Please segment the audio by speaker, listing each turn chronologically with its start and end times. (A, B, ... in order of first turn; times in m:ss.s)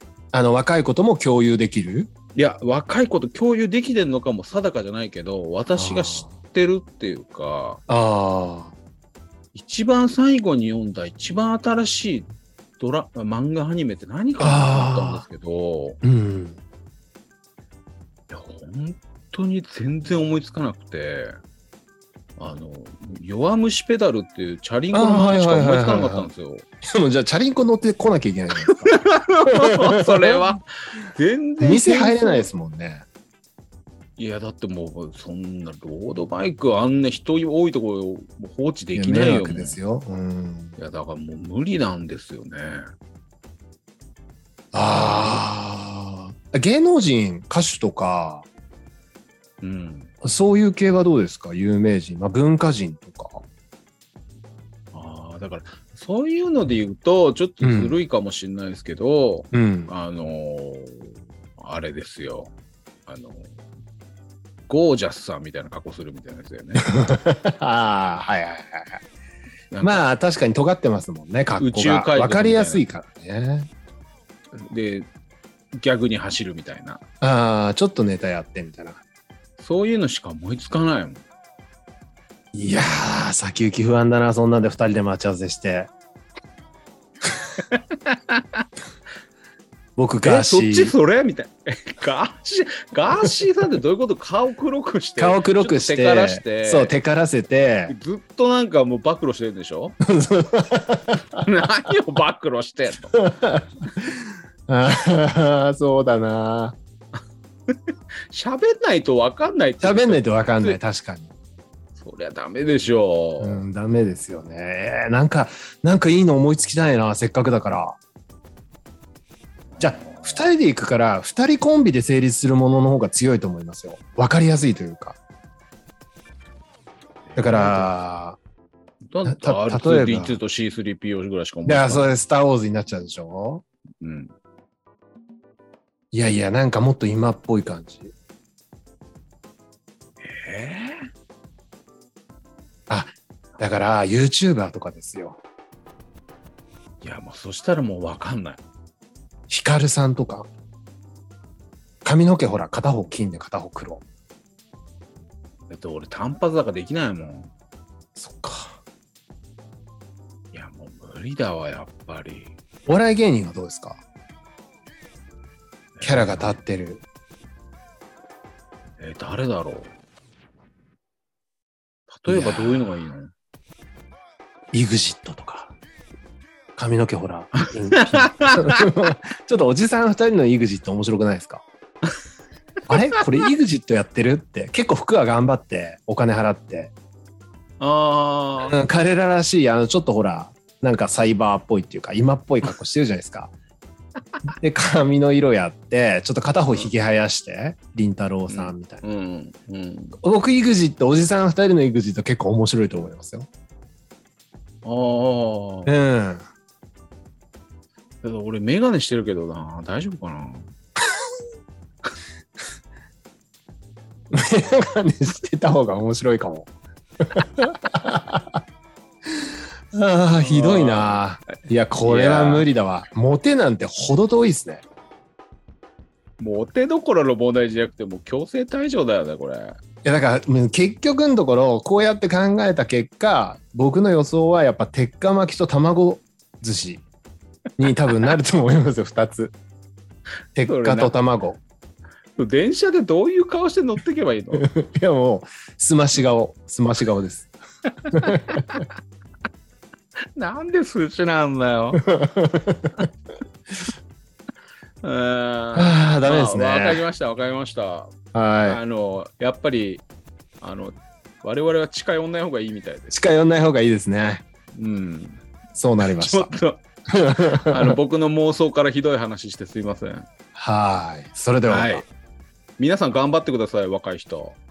0:00.3-0:02.1 A
0:02.4-0:07.8 B
0:05.8-0:06.3 A
0:07.9-0:08.7 A
0:09.5-0:16.0 B
0:14.4-0:15.2 A
0:16.0-0:16.6 A
0:18.3-0:21.4 B
0:22.4-0:26.6 B
0:24.9-0:26.3 A
0:26.9-0:28.9 A
0:28.8-0:30.6 B
0:29.5-0:30.4 A
0:31.1-0:32.5 B
0:31.6-0:33.0 A
0:34.2-0:39.8 B
0:38.9-0:40.8 A
0:40.8-0:42.9 B
0:44.7-0:48.5 A
0:45.0-0:45.4 B
0:49.6-0:50.1 B
0:50.2-0:53.4 A
0:54.9-1:02.5 B
0:57.6-0:58.0 A
0:59.5-0:59.9 A
1:03.1-1:03.5 B
1:04.7-1:06.8 B
1:06.8-1:09.0 A
1:09.7-1:10.0 B
1:09.8-1:13.7 A
1:11.6-1:12.8 B
1:14.6-1:15.1 B
1:15.7-1:17.0 B
1:17.2-1:19.0 A
1:19.6-1:21.2 B
1:22.5-1:25.9 A
1:27.7-1:28.6 B
1:30.0-1:30.9 A
1:30.2-1:37.0 B
1:35.2-1:37.9 A
1:37.9-1:40.0 B
1:40.0-1:41.4 A
1:41.4-1:43.1 B
1:43.1-1:43.7 A
1:44.7-1:46.8 A
1:47.7-1:50.8 B
1:49.8-1:51.3 A
1:52.0-1:53.6 B
1:53.4-1:58.0 A
1:59.7-2:00.5 B
1:59.8-2:05.2 A
2:07.3-2:07.9 B
2:07.4-2:08.4 A
2:09.1-2:12.1 B
2:09.2-2:10.4 A
2:11.6-2:13.6 A
2:14.0-2:14.3 B
2:16.1-2:18.1 A
2:20.2-2:21.1 B
2:22.9-2:25.4 A
2:27.0-2:28.6 B
2:29.5-2:30.5 A
2:32.0-2:34.0 A
2:35.7-2:37.5 B
2:38.2-2:38.8 A
2:40.5-2:42.6 B
2:42.9-2:44.0 A
2:46.0-2:46.6 B
2:46.0-2:47.0 A
2:49.0-2:49.9 B
2:52.1-2:53.3 B
2:52.3-2:52.9 A
2:54.7-2:55.7 A
2:56.8-3:01.6 A
2:57.9-2:58.8 B
3:02.9-3:06.9 A
3:07.8-3:08.8 B
3:08.7-3:13.5 A
3:14.5-3:19.0 A
3:18.5-3:20.2 B
3:20.2-3:23.5 A
3:24.8-3:25.9 B
3:25.9-3:26.4 A
3:28.2-3:30.7 B
3:34.3-3:36.7 A
3:37.2-3:38.6 A
3:39.3-3:44.8 A
3:40.4-3:41.2 B
3:42.0-3:42.7 B
3:46.4-3:49.8 B
3:50.0-3:57.0 A
3:57.8-3:59.6 A
4:00.6-4:01.6 A
4:00.6-4:01.1 B
4:02.4-4:04.6 B
4:04.6-4:07.5 A
4:08.1-4:08.8 B
4:08.1-4:08.8 A
4:10.4-4:12.0 B
4:12.0-4:13.0 A
4:15.0-4:18.1 B
4:15.8-4:17.0 A
4:18.3-4:18.8 A
4:18.6-4:20.0 B
4:20.6-4:23.2 B
4:23.1-4:24.4 A
4:24.8-4:25.4 B
4:25.8-4:26.6 A
4:26.0-4:26.8 B
4:27.1-4:28.0 A
4:27.6-4:30.3 B
4:30.6-4:32.0 A
4:31.6-4:32.1 B
4:32.8-4:34.6 B